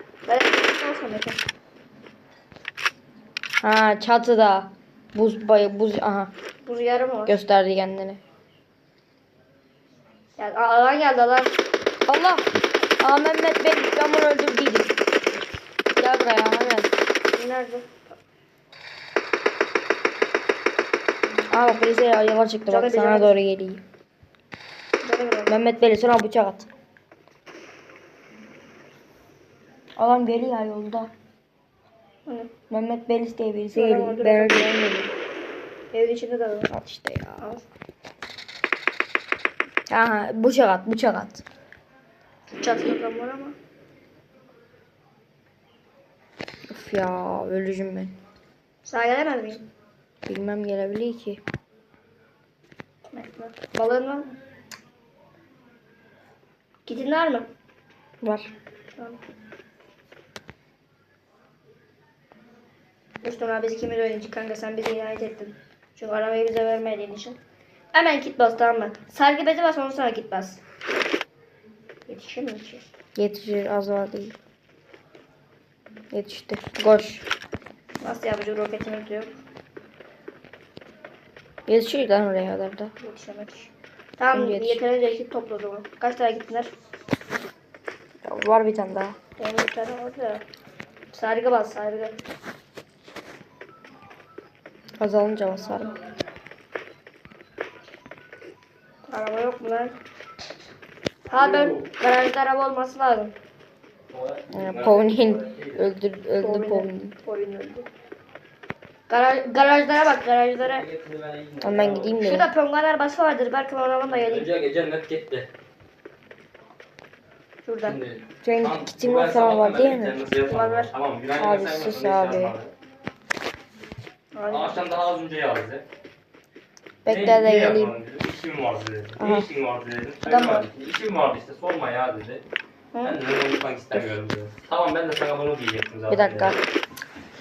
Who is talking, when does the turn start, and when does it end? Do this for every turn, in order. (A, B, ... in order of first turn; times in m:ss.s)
0:00.3-0:01.4 A
0:03.6-0:06.3 B
0:06.6-0:07.4 A
0:07.3-0:08.2 B
0:10.4-0:11.6 A
0:12.1-0:12.5 B
0:13.0-0:15.0 B
0:16.0-0:16.9 B
0:17.3-0:18.2 A
0:21.5-0:23.8 B
0:22.7-0:23.3 A
0:25.0-0:25.6 A
0:25.5-0:26.7 B
0:30.0-0:31.1 B
0:32.2-0:32.5 A
0:32.7-0:35.1 B
0:33.7-0:34.7 A
0:35.9-0:36.7 A
0:36.7-0:37.4 B
0:39.9-0:41.4 B
0:42.5-0:43.6 A
0:46.7-0:48.2 B
0:48.8-0:49.7 A
0:50.2-0:51.4 B
0:53.1-0:54.3 A
0:56.8-0:57.5 A
0:58.2-0:58.5 B
1:03.2-1:07.4 A
1:07.9-1:10.6 A
1:12.1-1:12.8 A
1:13.2-1:14.4 B
1:16.1-1:17.2 B
1:18.0-1:19.4 A
1:21.7-1:22.9 B
1:23.0-1:26.7 A
1:24.3-1:24.8 B
1:28.2-1:29.2 B
1:29.4-1:30.4 A
1:31.1-1:32.2 A
1:35.0-1:35.9 B
1:39.1-1:40.0 A
1:41.3-1:43.3 A
1:41.3-1:41.9 C
1:44.1-1:45.9 C
1:44.5-1:47.1 B
1:46.4-1:47.9 A
1:49.1-1:50.8 A
1:50.6-1:52.2 C
1:51.6-1:52.5 B
1:52.2-1:54.5 A
1:54.1-1:55.5 C
1:57.6-1:58.0 A
1:57.8-2:02.7 C
1:58.4-2:00.2 B
2:00.4-2:00.9 A
2:01.4-2:02.5 B
2:04.3-2:04.8 A
2:04.5-2:05.8 C
2:07.0-2:07.9 B
2:07.1-2:12.4 C
2:09.2-2:09.5 B
2:10.2-2:10.6 A
2:12.9-2:13.2 A
2:13.0-2:16.6 C
2:16.1-2:16.6 B